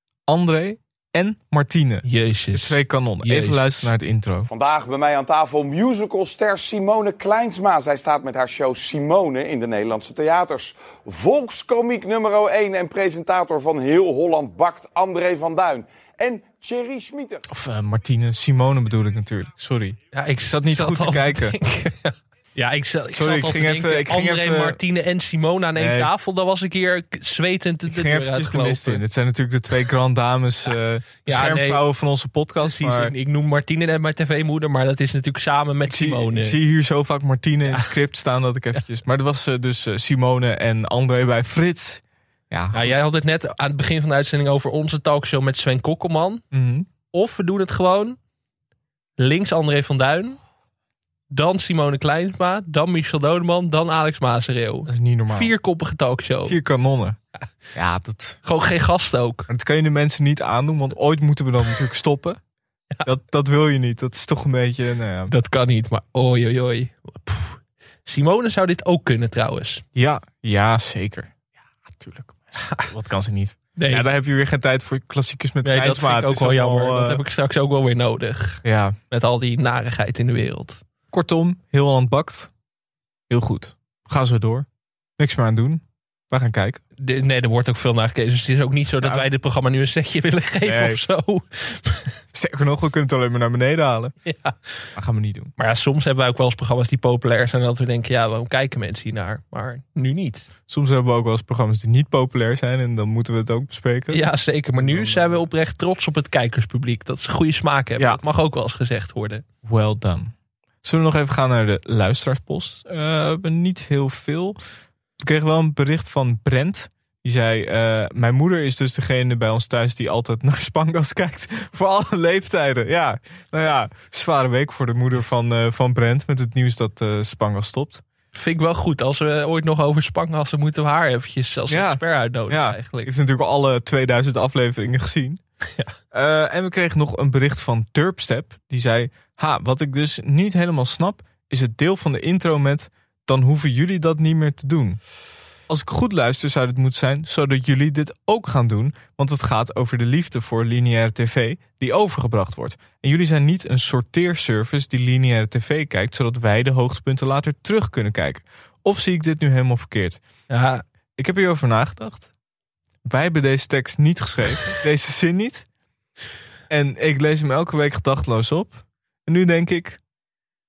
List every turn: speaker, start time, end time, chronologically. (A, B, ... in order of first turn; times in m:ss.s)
0:00.3-0:04.5 A
0:02.0-0:03.9 B
0:04.5-0:17.4 C
0:17.5-0:21.6 A
0:20.1-0:29.0 B
0:23.1-0:24.8 A
0:25.8-0:26.1 A
0:27.9-0:33.1 A
0:31.2-0:31.8 B
0:32.6-0:36.6 B
0:35.8-0:43.0 A
0:42.7-0:46.4 B
0:46.5-0:46.9 A
0:47.1-0:48.2 B
0:49.2-0:50.4 B
0:51.3-0:56.6 B
0:54.9-0:55.5 A
0:56.5-0:57.2 A
0:57.7-0:58.4 A
0:58.4-0:59.5 B
0:59.5-1:02.4 A
1:03.0-1:05.3 A
1:05.3-1:09.8 B
1:09.9-1:11.3 A
1:11.8-1:17.2 A
1:13.8-1:14.1 B
1:15.6-1:20.8 B
1:18.6-1:19.0 A
1:21.1-1:22.5 A
1:23.3-1:24.7 A
1:25.2-1:26.8 A
1:27.0-1:32.1 B
1:29.0-1:29.2 A
1:30.6-1:31.0 A
1:32.3-1:34.1 A
1:34.2-1:34.6 B
1:34.9-1:35.5 A
1:35.6-1:40.5 B
1:40.7-1:45.5 A
1:44.1-1:49.4 B
1:49.6-1:54.6 A
1:55.2-2:08.0 A
2:08.3-2:13.1 B
2:11.7-2:15.4 A
2:16.1-2:25.0 A
2:25.7-2:40.2 A
2:40.5-2:40.8 B
2:41.2-2:42.3 A
2:43.0-2:45.7 A
2:46.7-2:50.0 A